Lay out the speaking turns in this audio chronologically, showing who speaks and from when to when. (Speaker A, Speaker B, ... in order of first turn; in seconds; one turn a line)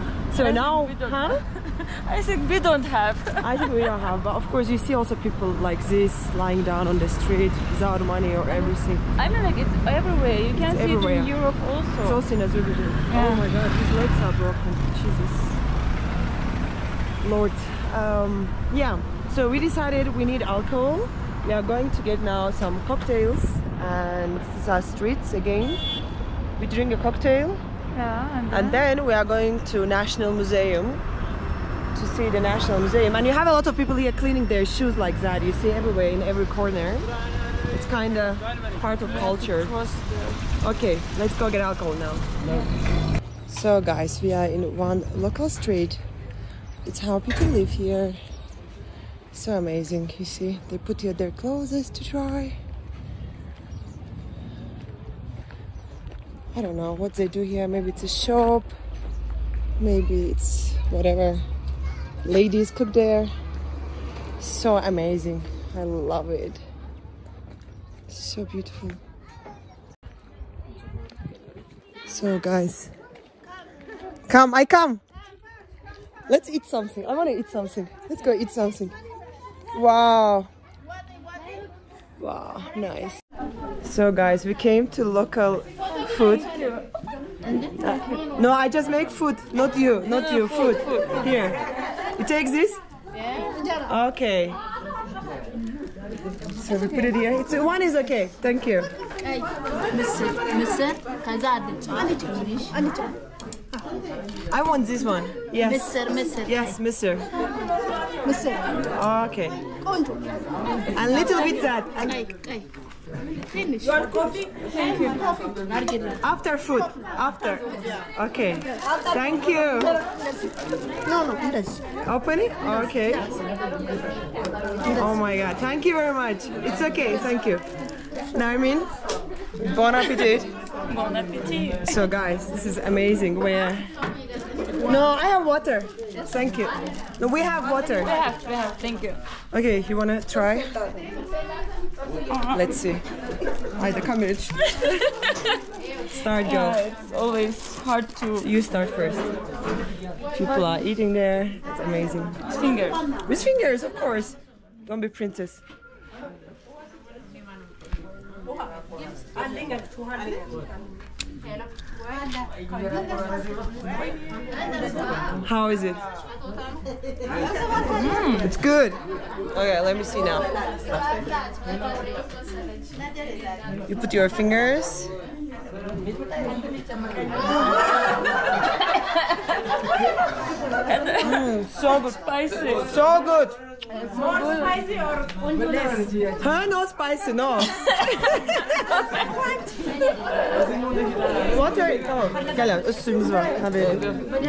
Speaker A: 0.3-1.4
Speaker B: 0.3-3.9
Speaker A: 3.4-9.0
Speaker B: 8.5-12.2
Speaker A: 10.5-11.3
Speaker A: 12.0-15.6
Speaker B: 13.1-13.5
Speaker A: 17.2-25.8
Speaker A: 26.6-27.6
Speaker B: 27.9-28.8
Speaker A: 28.5-31.0
Speaker A: 31.9-37.1
Speaker A: 37.7-39.7
Speaker B: 39.0-40.4
Speaker A: 40.6-42.3
Speaker A: 43.5-46.0
Speaker A: 46.8-48.2
Speaker A: 49.3-52.6
Speaker A: 56.5-58.7
Speaker A: 59.8-61.4
Speaker A: 62.2-63.3
Speaker A: 64.4-66.6
Speaker A: 68.1-69.0
Speaker A: 72.1-72.9
Speaker A: 74.3-75.0
Speaker A: 76.3-78.9
Speaker A: 79.7-80.5
Speaker A: 82.2-83.2
Speaker A: 83.8-86.8
Speaker A: 87.7-91.6
Speaker B: 90.0-91.3
Speaker A: 92.2-92.8
Speaker C: 93.3-93.7
Speaker A: 93.8-94.6
Speaker A: 96.6-98.9
Speaker C: 99.3-103.1
Speaker A: 104.5-107.3
Speaker C: 105.7-106.7
Speaker C: 108.2-108.7
Speaker A: 108.9-109.6
Speaker C: 109.9-110.2
Speaker A: 110.9-112.1
Speaker C: 110.9-112.7
Speaker C: 113.5-114.3
Speaker C: 114.9-116.2
Speaker A: 116.2-120.0
Speaker C: 118.8-119.2
Speaker C: 119.9-120.5
Speaker C: 121.0-121.8
Speaker A: 122.0-123.3
Speaker A: 124.9-127.6
Speaker A: 128.3-128.9
Speaker A: 129.6-130.5
Speaker B: 130.9-132.1
Speaker A: 131.8-133.9
Speaker A: 134.8-138.1
Speaker B: 138.0-139.2
Speaker A: 139.5-140.8
Speaker B: 142.3-142.8
Speaker A: 142.5-143.0
Speaker A: 143.8-145.1
Speaker B: 144.9-145.3
Speaker A: 146.1-146.8
Speaker B: 146.4-148.5
Speaker A: 148.4-149.3
Speaker A: 150.3-152.4
Speaker B: 150.4-150.7
Speaker B: 152.5-153.0
Speaker A: 153.2-155.6
Speaker A: 165.4-166.0
Speaker B: 167.9-168.5
Speaker A: 168.4-169.0
Speaker A: 169.5-170.5
Speaker A: 173.9-175.1
Speaker B: 180.9-181.3
Speaker A: 181.2-182.2
Speaker B: 182.0-182.9
Speaker A: 182.8-183.6
Speaker B: 184.1-184.8
Speaker A: 186.4-188.8
Speaker B: 187.9-188.3
Speaker B: 188.9-189.2
Speaker A: 191.4-194.1